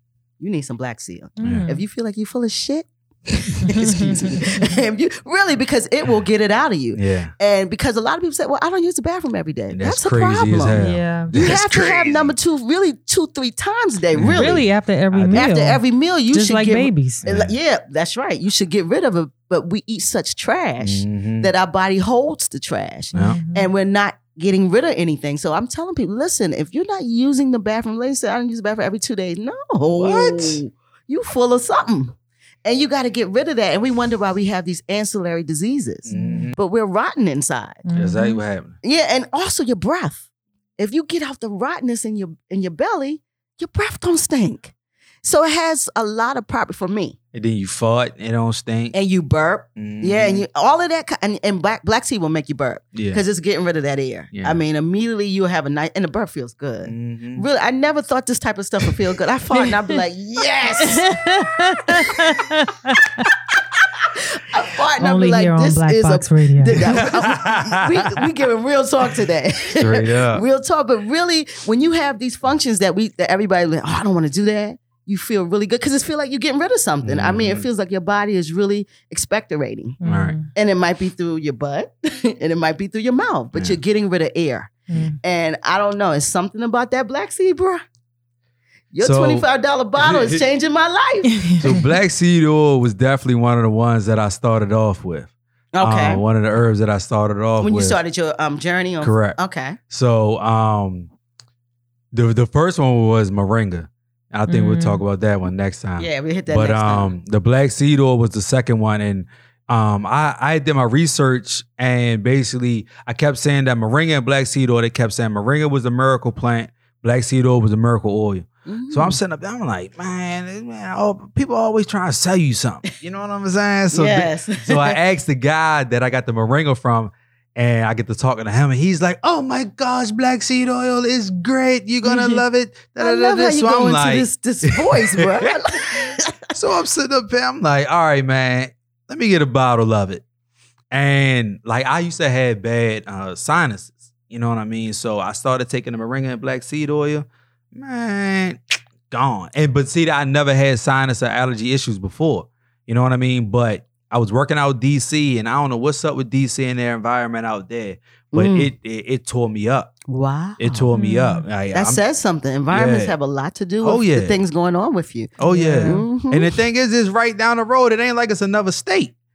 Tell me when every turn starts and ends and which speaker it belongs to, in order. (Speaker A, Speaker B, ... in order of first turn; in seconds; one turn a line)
Speaker A: 0.4-10.8
Speaker B: 1.4-1.8
Speaker C: 1.4-1.7
Speaker B: 3.6-4.7
Speaker C: 6.9-7.3
Speaker C: 9.7-12.3
Speaker B: 10.7-11.3
Speaker A: 11.3-14.6
Speaker C: 14.1-15.4
Speaker B: 14.3-17.2
Speaker A: 15.3-37.8
Speaker C: 17.2-17.5
Speaker C: 20.8-21.5
Speaker B: 23.1-23.7
Speaker C: 29.9-30.6
Speaker C: 36.0-36.6
Speaker B: 36.1-36.5
Speaker B: 37.8-38.4
Speaker C: 38.0-38.8
Speaker A: 38.8-40.2
Speaker A: 40.8-44.7
Speaker A: 45.2-47.2
Speaker C: 47.3-48.9
Speaker A: 48.9-62.4
Speaker C: 49.8-50.5
Speaker C: 52.9-53.2
Speaker C: 54.3-54.6
Speaker C: 56.9-57.5
Speaker B: 60.7-63.2
Speaker A: 64.0-80.0
Speaker B: 65.0-66.8
Speaker C: 66.8-68.2
Speaker C: 69.8-70.4
Speaker C: 77.0-77.6
Speaker B: 80.0-80.5
Speaker C: 80.0-80.4
Speaker A: 80.5-87.8
Speaker C: 83.5-83.8
Speaker B: 84.9-85.2
Speaker A: 88.9-91.8
Speaker C: 89.0-89.5
Speaker C: 90.0-90.4
Speaker B: 91.2-91.8
Speaker C: 91.6-98.0
Speaker A: 95.7-96.2
Speaker A: 97.6-99.8
Speaker C: 99.0-99.4
Speaker C: 99.9-101.1
Speaker C: 102.1-140.2
Speaker B: 104.5-105.0
Speaker A: 106.0-107.1
Speaker A: 118.7-119.2
Speaker A: 123.9-125.0
Speaker A: 132.0-132.4
Speaker A: 133.0-136.5
Speaker C: 140.9-159.9
Speaker A: 158.3-158.7
Speaker A: 160.1-160.9
Speaker C: 160.6-162.0
Speaker B: 160.9-161.4
Speaker A: 161.7-166.5
Speaker C: 162.7-163.1
Speaker C: 163.8-164.4
Speaker C: 165.4-169.1
Speaker B: 165.5-166.1